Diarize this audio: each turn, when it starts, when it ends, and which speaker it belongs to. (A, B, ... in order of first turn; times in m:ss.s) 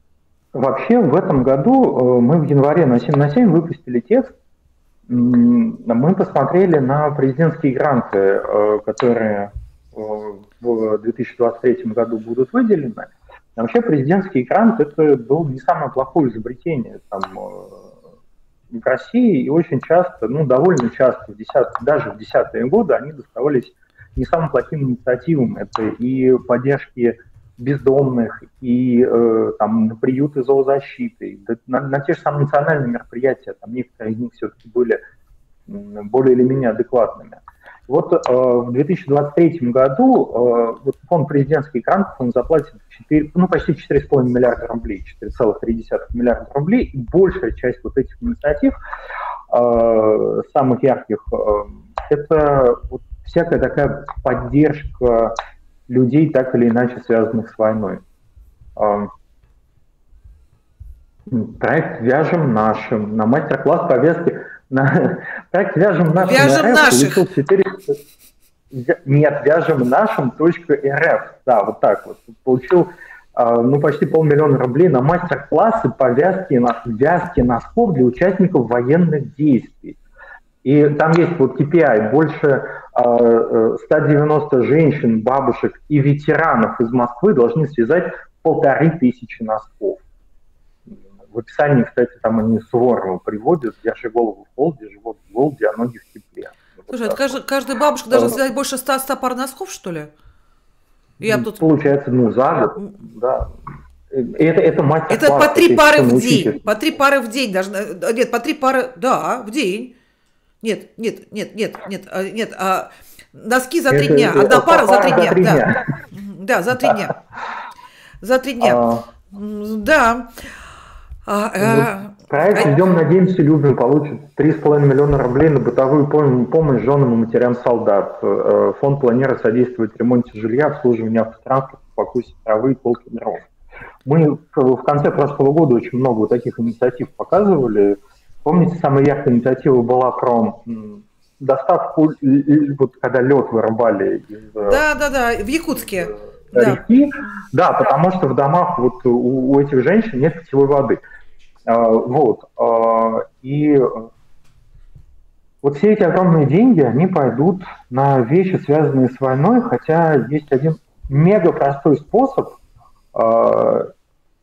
0:00.5-0:04.3 A
0:05.1-0:17.9 A
0:18.7-0:35.0 A
0:35.7-0:48.7 A
0:49.5-0:55.4 A
0:55.9-0:58.0 A
0:58.8-0:59.1 A
1:01.3-1:08.0 A
1:06.1-1:07.3 B
1:08.7-1:20.0 A
1:20.6-1:30.0 A
1:30.9-1:37.4 A
1:36.9-1:40.1 B
1:38.1-1:38.4 A
1:41.2-1:41.7 B
1:41.2-1:43.5 A
1:44.1-1:46.6 A
1:45.1-1:49.9 B
1:50.6-1:57.1 B
1:53.9-1:55.8 A
1:58.2-2:00.5 B
1:58.6-1:59.1 A
2:01.2-2:02.7 B
2:01.6-2:13.5 A
2:14.0-2:24.8 A
2:24.6-2:26.8 B
2:26.2-2:31.0 A
2:31.6-2:34.1 A
2:35.6-2:42.6 A
2:43.1-2:43.9 A